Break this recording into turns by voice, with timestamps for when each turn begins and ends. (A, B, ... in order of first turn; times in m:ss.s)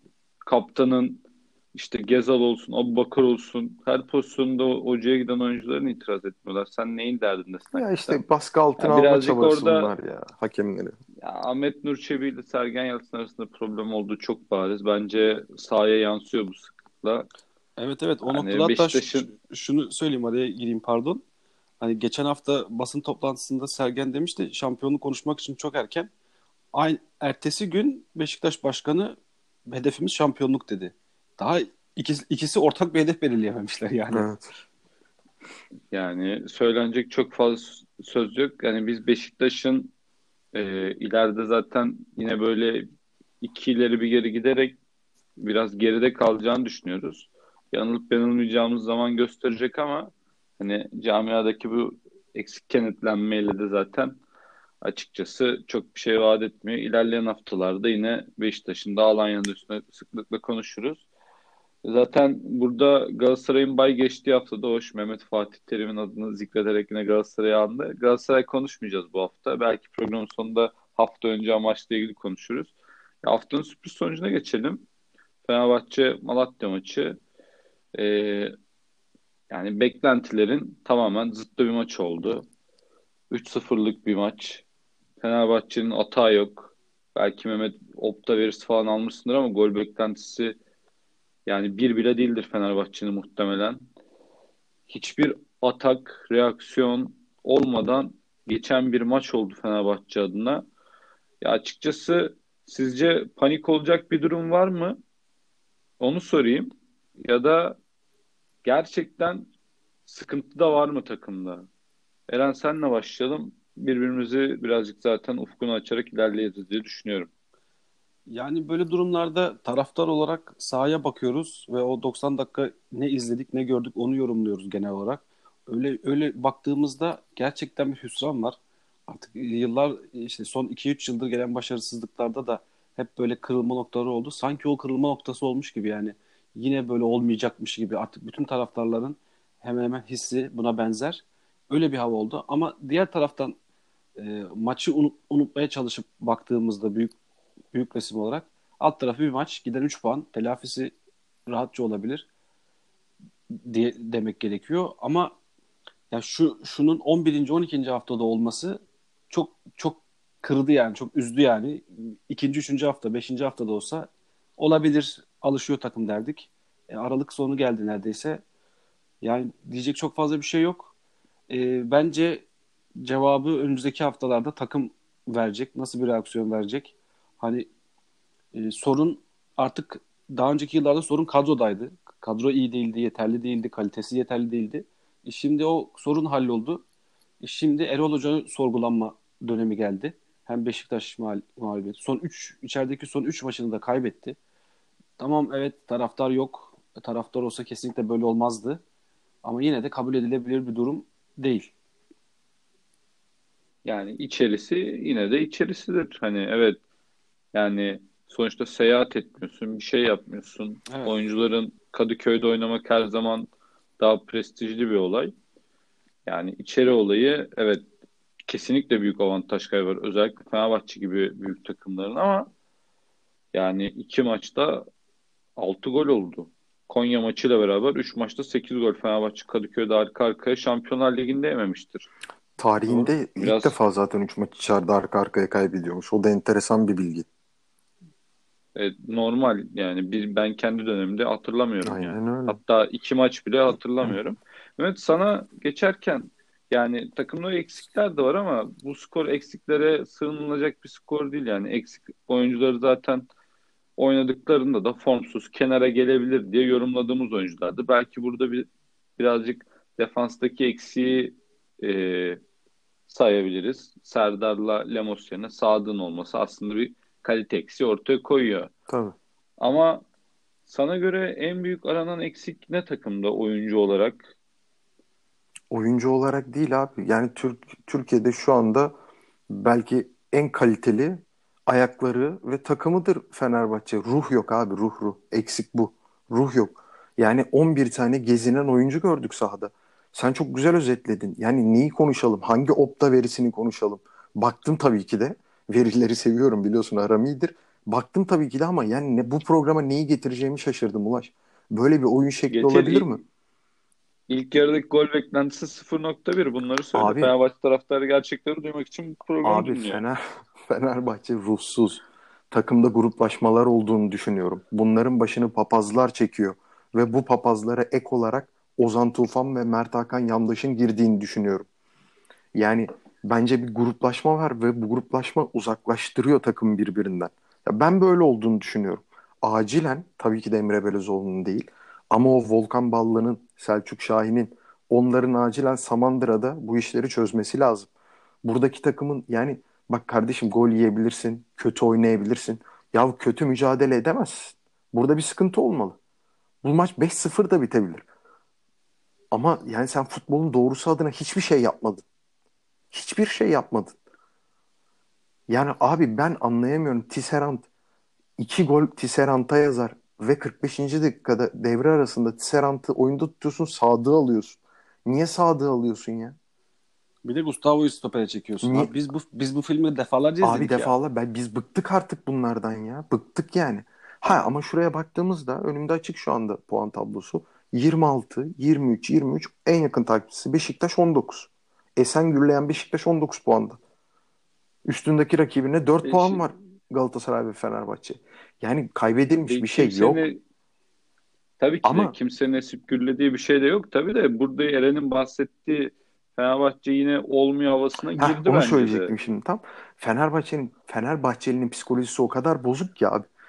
0:00.4-0:08.2 A
0:07.8-0:11.0 B
0:08.8-0:09.9 A
0:11.2-0:17.3 A
0:17.8-0:21.2 C
0:18.3-0:19.3 A
0:21.8-0:26.1 C
0:26.7-0:34.3 C
0:34.1-0:34.5 B
0:35.9-0:39.9 A
0:40.5-0:42.9 A
0:43.4-0:44.8 A
0:45.4-0:54.2 A
0:54.8-1:01.0 A
1:01.8-1:14.8 A
1:15.4-1:17.2 A
1:18.0-1:18.5 A
1:19.5-1:22.5 A
1:23.3-1:24.6 A
1:25.2-1:30.6 A
1:31.5-1:33.8 A
1:34.9-1:40.7 A
1:41.4-1:45.0 A
1:46.0-1:46.7 A
1:47.2-1:47.8 A
1:48.6-1:49.5 A
1:50.1-1:51.7 A
1:52.3-1:57.3 A
1:58.3-2:08.6 C
2:09.1-2:23.6 C
2:24.2-2:27.2 C
2:27.7-2:30.9 C
2:31.5-2:32.3 C
2:33.5-2:35.4 C
2:36.1-2:48.4 C
2:49.2-2:50.9 C
2:51.5-2:52.4 C
2:53.0-2:57.7 C
2:58.5-3:06.8 C
3:07.4-3:14.4 C
3:15.2-3:18.8 C
3:19.4-3:21.7 C
3:23.8-3:26.8 A
3:27.5-3:35.3 A
3:30.9-3:31.1 C
3:36.3-3:37.8 A
3:38.5-3:42.5 A
3:43.5-3:44.9 A
3:45.6-3:52.1 A
3:52.6-3:57.3 B
3:52.8-3:53.8 A
3:58.8-4:13.3 A
4:01.8-4:02.6 B
4:14.0-4:22.4 A
4:23.1-4:28.7 A
4:28.9-4:29.2 B
4:29.6-4:30.0 A
4:30.7-4:34.3 A
4:35.7-4:38.9 B
4:39.5-5:03.2 B
5:02.5-5:03.2 A
5:04.3-5:10.0 A
5:07.0-5:07.3 B
5:09.4-5:21.7 B
5:22.6-5:37.9 B
5:38.4-5:46.0 B
5:46.6-5:48.0 B
5:49.3-5:52.0 B
5:52.9-5:54.0 B
5:55.5-5:57.7 B
5:58.4-6:06.4 B
6:07.2-6:10.9 C
6:08.6-6:08.9 B
6:10.4-6:23.8 B
6:24.9-6:30.2 B
6:26.0-6:26.4 A
6:29.4-6:30.4 A
6:31.6-6:39.1 A
6:31.8-6:32.1 B
6:38.2-6:43.3 B